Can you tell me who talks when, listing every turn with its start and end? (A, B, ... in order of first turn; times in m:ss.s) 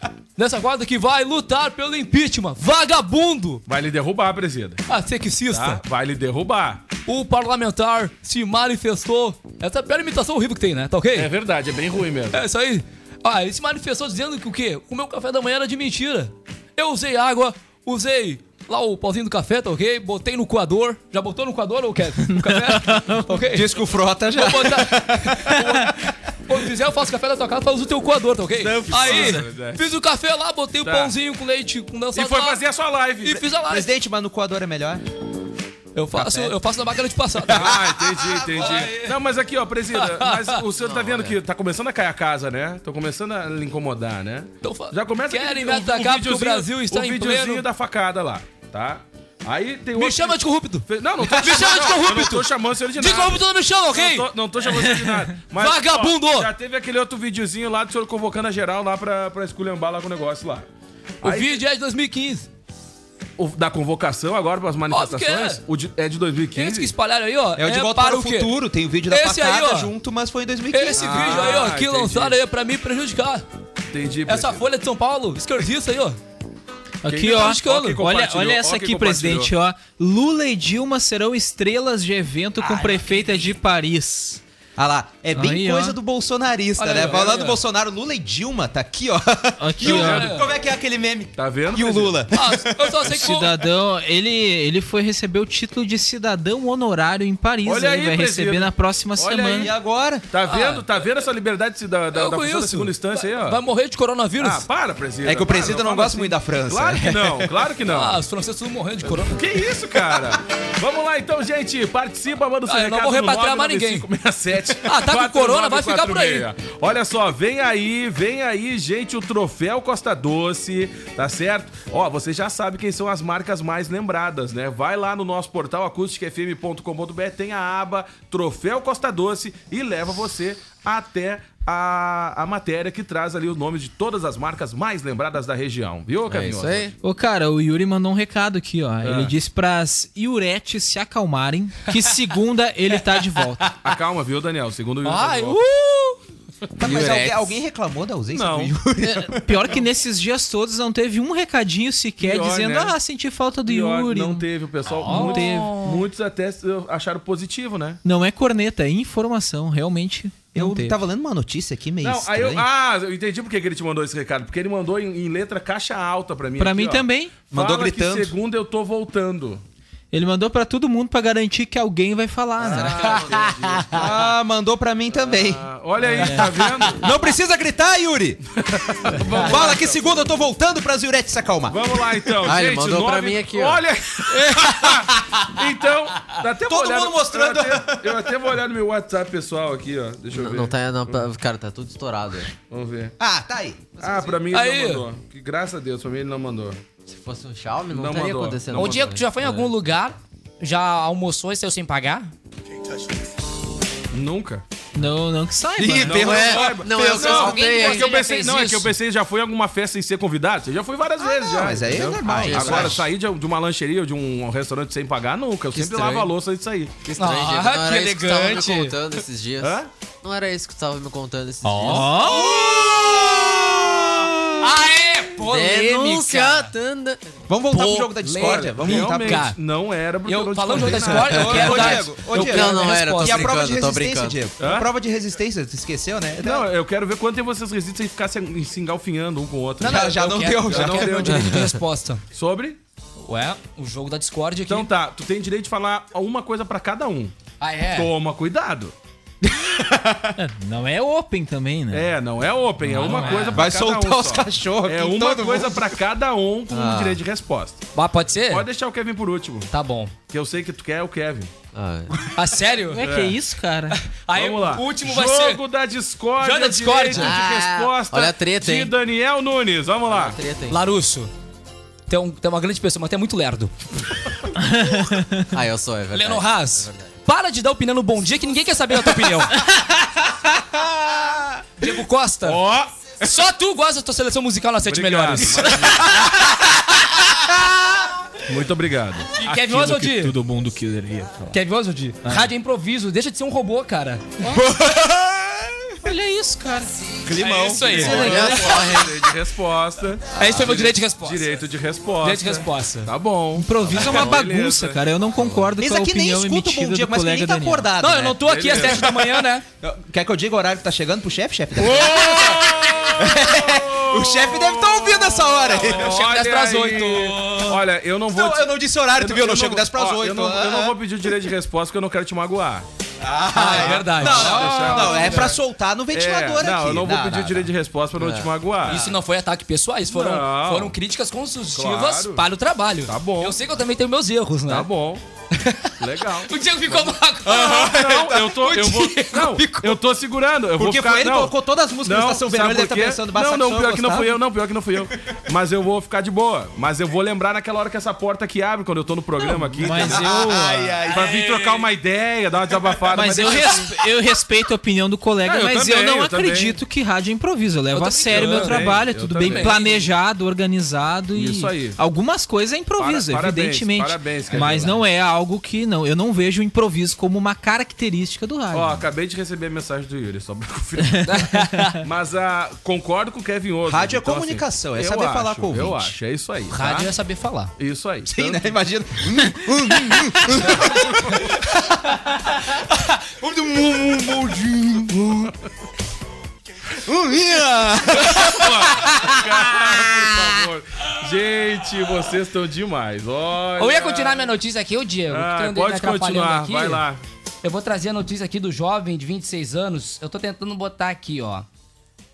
0:00.4-0:03.6 A
0:03.7-0:04.9 B
0:04.9-0:05.8 A
0:05.5-0:06.8 B
0:07.1-0:11.3 A
0:11.2-0:12.4 B
0:12.3-0:32.6 A
0:22.2-0:23.4 C
0:23.5-0:25.6 D
0:28.6-0:29.9 B
0:30.8-0:31.2 B
0:32.1-0:33.4 B
0:33.2-0:33.9 A
0:33.4-0:35.0 D
0:36.0-0:39.2 A
0:36.1-0:36.6 D
0:37.5-1:00.7 B
0:39.9-0:40.6 A
0:40.8-0:41.4 E
0:44.6-0:47.6 A
0:50.0-0:54.3 A
0:55.5-0:56.5 A
1:01.2-1:01.6 B
1:01.2-1:02.5 A
1:03.4-1:06.9 B
1:04.9-1:05.6 A
1:06.6-1:08.6 A
1:07.6-1:11.6 D
1:09.1-1:09.9 A
1:10.7-1:13.4 A
1:11.0-1:12.4 B
1:13.9-1:14.6 B
1:14.3-1:16.2 A
1:17.0-1:24.4 C
1:17.0-1:19.6 B
1:17.3-1:18.0 A
1:22.6-1:23.5 A
1:24.8-1:32.9 D
1:25.4-1:26.0 C
1:26.8-1:27.6 A
1:27.0-1:27.3 B
1:29.6-1:30.3 C
1:29.8-1:30.5 B
1:29.8-1:30.5 A
1:31.4-1:32.2 B
1:32.3-1:33.6 A
1:33.1-1:39.7 C
1:37.6-1:39.7 B
1:39.6-1:40.3 D
1:40.3-1:43.6 B
1:40.5-1:40.8 A
1:42.1-1:44.7 A
1:44.4-1:48.2 B
1:45.2-1:47.6 D
1:47.9-1:49.5 A
1:49.0-2:16.9 B
1:52.7-1:54.1 A
1:54.8-1:56.5 A
2:16.3-2:17.0 E
2:17.0-2:23.7 C
2:19.0-2:19.4 B
2:23.8-2:25.6 B
2:25.0-2:26.2 A
2:26.8-2:29.8 D
2:26.8-2:27.4 E
2:26.9-2:27.4 A
2:28.3-2:28.8 B
2:29.2-2:34.5 C
2:32.2-2:33.0 B
2:33.6-2:38.0 B
2:34.9-2:36.0 A
2:35.0-2:35.9 C
2:38.0-2:41.0 C
2:40.5-2:42.7 D
2:42.0-2:49.6 B
2:46.6-2:47.4 C
2:47.5-2:48.4 D
2:50.1-2:53.2 C
2:52.6-2:53.8 E
2:52.6-2:54.2 B
2:52.9-2:54.1 A
2:53.9-2:55.6 D
2:55.1-2:57.0 B
2:56.2-2:57.0 A
2:56.9-2:58.4 D
2:58.6-3:00.1 B
2:59.3-2:59.6 A
2:59.3-3:02.3 D
3:01.7-3:11.2 B
3:02.4-3:03.8 E
3:04.5-3:05.5 D
3:06.6-3:08.3 D
3:10.3-3:12.5 E
3:12.7-3:13.2 B
3:13.2-3:13.9 D
3:14.0-3:16.8 B
3:14.0-3:14.4 E
3:14.5-3:15.1 A
3:17.1-3:19.7 E
3:17.9-3:19.2 B
3:18.7-3:22.3 A
3:24.1-3:24.6 B
3:25.0-3:26.4 C
3:25.8-3:27.5 D
3:25.8-3:37.0 B
3:26.1-3:28.2 E
3:27.0-3:28.9 A
3:31.4-3:33.1 D
3:32.2-3:32.9 C
3:32.5-3:33.0 E
3:35.7-3:36.3 E
3:37.0-3:42.4 E
3:37.2-3:39.0 A
3:39.6-3:39.9 B
3:41.7-3:46.7 A
3:41.8-3:42.5 C
3:42.6-3:42.9 D
3:45.4-3:47.4 E
3:47.5-3:49.5 D
3:47.7-3:49.6 A
3:48.4-3:52.2 B
3:50.3-3:53.6 A
3:51.0-3:56.7 D
3:52.3-3:54.4 E
3:54.6-3:54.9 B
3:56.4-4:01.7 B
3:59.8-4:02.2 A
3:59.8-4:01.1 D
4:01.3-4:01.6 E
4:02.3-4:02.8 B
4:03.2-4:04.9 A
4:04.7-4:07.4 B
4:07.6-4:08.1 A
4:07.9-4:08.9 B
4:09.4-4:10.4 D
4:10.4-4:12.1 C
4:11.9-4:17.9 B
4:12.8-4:13.7 C
4:13.1-4:13.5 A
4:13.5-4:16.0 D
4:16.7-4:17.2 E
4:18.0-4:18.7 A
4:18.5-4:21.5 B
4:19.7-4:20.2 A
4:21.7-4:22.1 E
4:22.4-4:23.0 A
4:22.9-4:24.0 C
4:23.0-4:23.4 B
4:23.9-4:25.6 A
4:24.3-4:30.4 B
4:26.4-4:27.9 A
4:27.2-4:28.9 E
4:30.1-4:30.8 E
4:30.7-4:31.3 A
4:32.1-4:33.7 A
4:34.6-4:35.5 C
4:35.5-4:37.1 E
4:36.1-4:39.6 A
4:39.6-4:40.3 C
4:41.0-4:41.5 D
4:41.8-4:42.6 A
4:42.4-4:43.2 B
4:43.2-4:46.7 A
4:44.9-4:46.2 B
4:45.6-4:46.6 C
4:48.4-4:49.3 B
4:49.4-4:50.4 A
4:49.4-4:51.6 C
4:51.5-4:54.6 A
4:54.5-4:55.8 D
4:56.0-4:56.9 C
4:57.2-4:58.7 D
4:57.4-4:58.9 A
4:57.5-5:05.7 B
4:58.0-4:59.4 E
5:00.3-5:00.8 E
5:00.4-5:01.5 A
5:02.2-5:03.1 A
5:03.6-5:07.9 C
5:05.8-5:08.4 D
5:08.0-5:09.6 A
5:08.4-5:09.2 B
5:09.8-5:16.2 D
5:11.8-5:22.9 B
5:12.3-5:12.7 A
5:15.8-5:17.8 A
5:18.3-5:21.0 D
5:23.2-5:27.7 D
5:23.5-5:25.6 A
5:23.7-5:25.6 B
5:26.1-5:29.1 B
5:28.2-5:28.5 E
5:28.8-5:34.9 A
5:30.1-5:31.0 B
5:31.8-5:32.5 B
5:33.1-5:33.6 B
5:34.7-5:35.2 B
5:35.5-5:40.0 A
5:36.0-5:36.5 B
5:37.4-5:50.4 B
5:40.8-5:44.4 D
5:49.4-5:51.2 C
5:50.1-5:51.8 D
5:51.1-5:54.0 B
5:52.9-5:53.5 D
5:53.1-6:09.1 C
5:55.4-5:56.8 B
5:57.9-6:00.1 A
5:58.3-5:59.8 B
6:01.3-6:02.0 B
6:03.0-6:05.0 B
6:08.7-6:11.5 B
6:11.1-6:11.8 C
6:11.3-6:12.0 A
6:12.0-6:17.1 B
6:13.9-6:16.1 D
6:16.7-6:17.7 A
6:17.8-6:18.8 B
6:18.3-6:25.5 D
6:20.8-6:21.5 B
6:27.0-6:29.8 D
6:28.1-6:34.5 B
6:33.8-6:37.0 A
6:35.3-6:37.2 B
6:37.6-6:41.6 A